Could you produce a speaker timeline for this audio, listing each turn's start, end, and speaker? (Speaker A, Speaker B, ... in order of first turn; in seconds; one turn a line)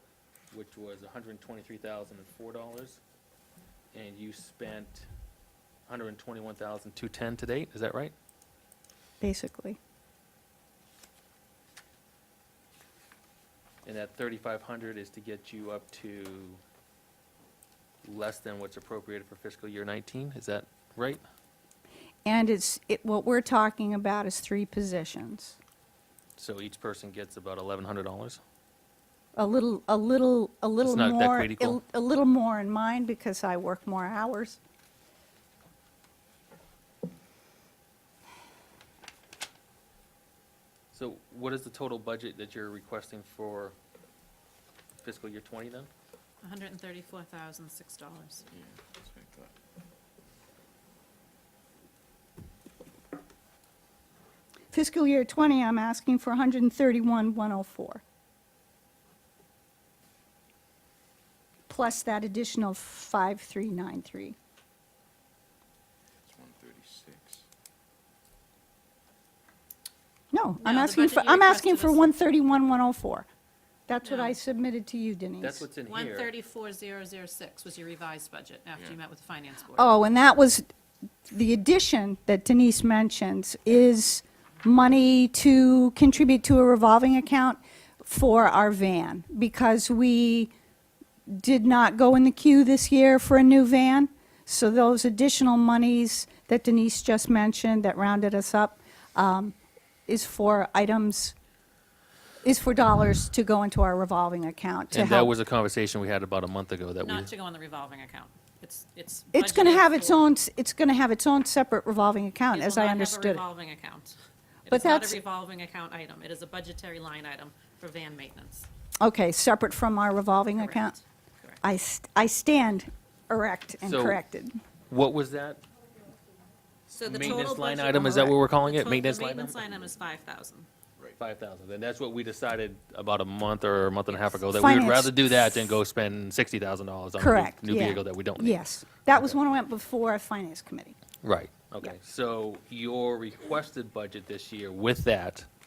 Speaker A: 0.5-3.0
Speaker A: 3.9-5.1
Speaker A: 5.9-8.1
Speaker B: 9.2-9.8
Speaker A: 13.8-16.6
Speaker A: 18.0-21.2
Speaker B: 22.2-25.6
Speaker A: 26.4-28.4
Speaker B: 29.4-34.6
Speaker A: 30.8-31.8
Speaker A: 40.9-43.7
Speaker A: 45.0-45.9
Speaker C: 46.4-48.5
Speaker D: 48.5-49.5
Speaker B: 54.7-58.0
Speaker B: 61.7-64.3
Speaker D: 66.2-67.4
Speaker B: 70.3-73.3
Speaker C: 70.6-72.1
Speaker B: 73.9-75.6
Speaker C: 74.0-74.4
Speaker A: 75.4-76.3
Speaker C: 75.8-80.0
Speaker B: 79.7-80.6
Speaker B: 81.3-90.5
Speaker B: 91.3-99.5
Speaker B: 100.1-101.3
Speaker B: 102.4-105.3
Speaker A: 104.9-107.3
Speaker C: 107.0-110.3
Speaker B: 109.3-113.4
Speaker C: 112.5-118.7
Speaker B: 114.7-115.2
Speaker B: 119.0-121.0
Speaker C: 120.5-121.6
Speaker B: 121.6-124.6
Speaker A: 123.8-124.2
Speaker A: 124.9-125.6
Speaker C: 126.9-130.7
Speaker A: 127.0-129.6
Speaker A: 131.2-138.6
Speaker C: 134.1-134.4
Speaker B: 134.5-135.5
Speaker B: 137.2-140.9
Speaker A: 141.2-145.5